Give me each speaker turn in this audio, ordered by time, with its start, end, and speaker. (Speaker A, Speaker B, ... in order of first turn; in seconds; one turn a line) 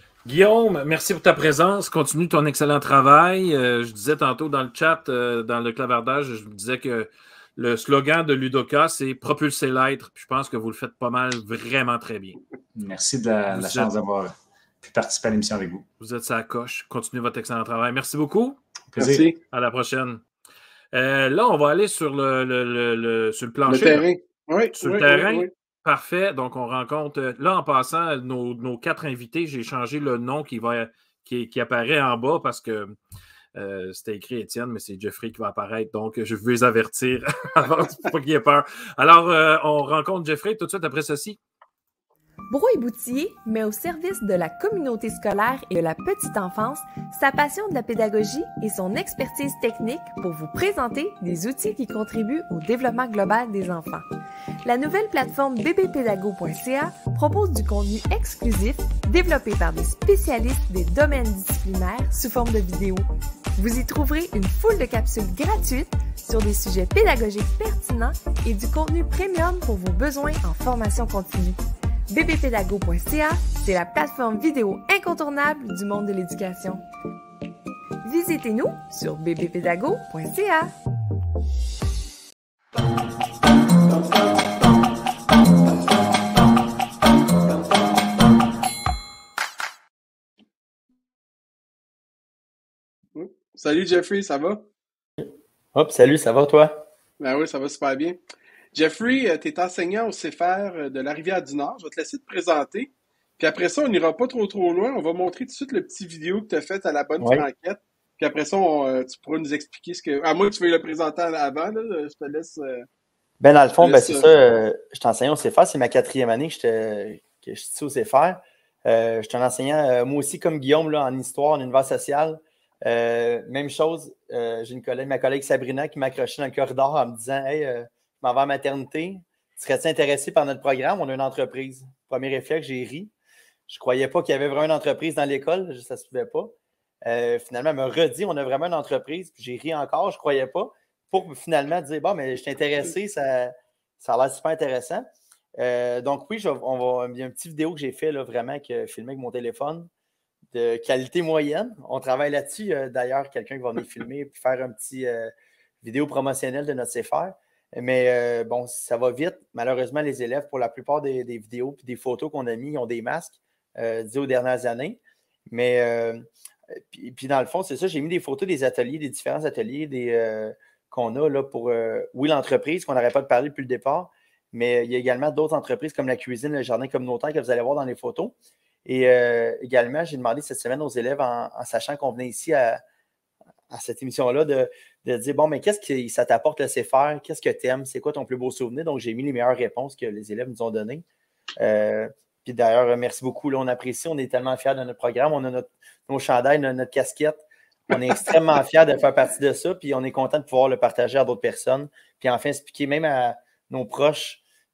Speaker A: 0.2-12.4
Speaker B: 12.8-15.9
Speaker A: 13.5-13.9
Speaker A: 16.0-18.6
Speaker B: 18.9-19.3
Speaker C: 19.0-19.4
Speaker A: 19.5-20.2
Speaker A: 20.9-24.1
Speaker C: 23.7-25.5
Speaker A: 24.8-33.0
Speaker A: 33.5-41.4
Speaker D: 42.5-54.1
Speaker D: 54.6-71.6
Speaker D: 72.1-76.8
Speaker D: 78.0-80.7
Speaker C: 93.2-94.7
Speaker E: 95.2-96.9
Speaker C: 97.2-98.2
Speaker C: 98.7-112.9
Speaker E: 113.4-133.1
Speaker C: 113.8-114.3
Speaker E: 133.7-136.5
Speaker E: 137.0-149.9
Speaker E: 150.5-165.0
Speaker E: 165.5-166.2
Speaker E: 166.8-178.3
Speaker E: 178.8-182.8
Speaker E: 183.7-191.0
Speaker E: 191.6-204.4